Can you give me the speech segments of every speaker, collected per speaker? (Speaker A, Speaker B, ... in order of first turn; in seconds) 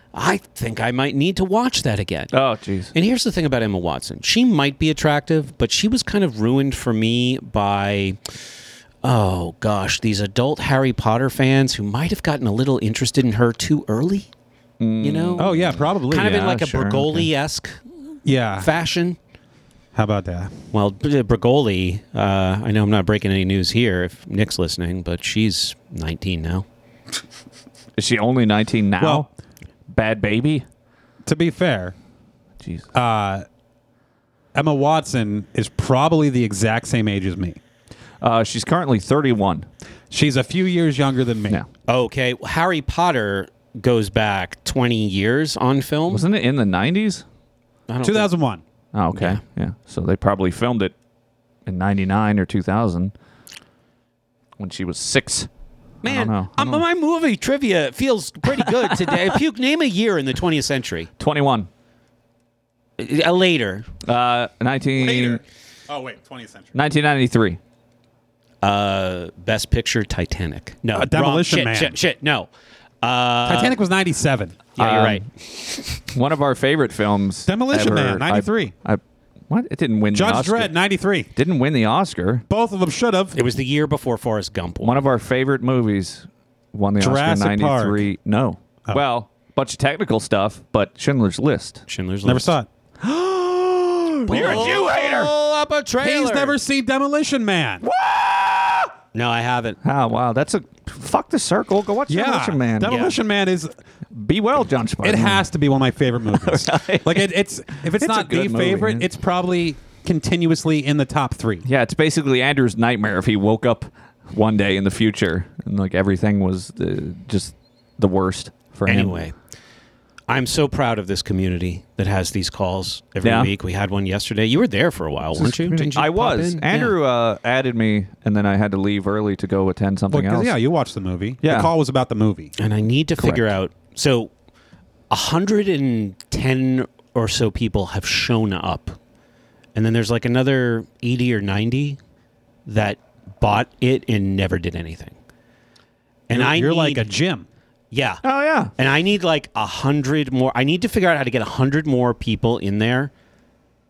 Speaker A: 0.1-2.3, 2.9-8.2, 9.0-14.3, 15.0-17.8, 18.6-19.2, 20.7-26.6, 41.9-46.2, 47.9-48.3, 49.1-49.4, 56.0-61.1, 63.0-63.9, 68.6-72.5, 73.0-73.8, 74.8-75.8, 83.3-85.0, 91.9-92.5, 94.3-96.6, 99.1-99.8, 102.8-103.1, 118.9-119.3, 120.3-126.9, 132.6-134.3, 135.1-139.0, 139.7-142.0, 142.7-145.2, 146.3-147.1, 147.9-148.2, 148.8-153.1
Speaker B: 2.3-2.9, 14.8-17.3, 28.0-29.3, 29.9-30.6, 32.6-32.9, 38.2-39.7, 46.1-47.2, 48.9-50.9, 51.6-53.1, 54.6-55.5, 56.0-56.8, 61.2-61.7, 64.0-65.4, 66.7-67.6, 74.8-75.2, 76.0-80.7, 81.3-82.4, 84.8-91.8, 93.0-95.3, 97.8-98.9, 99.8-103.0, 104.1-105.4, 106.3-109.1, 111.7-119.3, 123.2-123.5, 125.3-130.5, 131.4-131.7, 133.2-133.4, 148.2-148.7
Speaker C: 15.4-16.4, 18.2-18.7, 19.9-20.5, 29.0-29.3, 31.2-31.9, 32.9-33.4, 34.5-37.6, 40.1-41.6, 48.0-48.6, 65.0-66.7, 70.9-72.0, 73.5-74.7, 77.5-78.7, 80.1-81.3, 82.5-83.4, 87.0-88.0, 92.2-92.7, 94.3-95.0, 96.0-97.8, 102.1-103.7, 105.0-111.7, 130.1-132.5, 146.3-147.5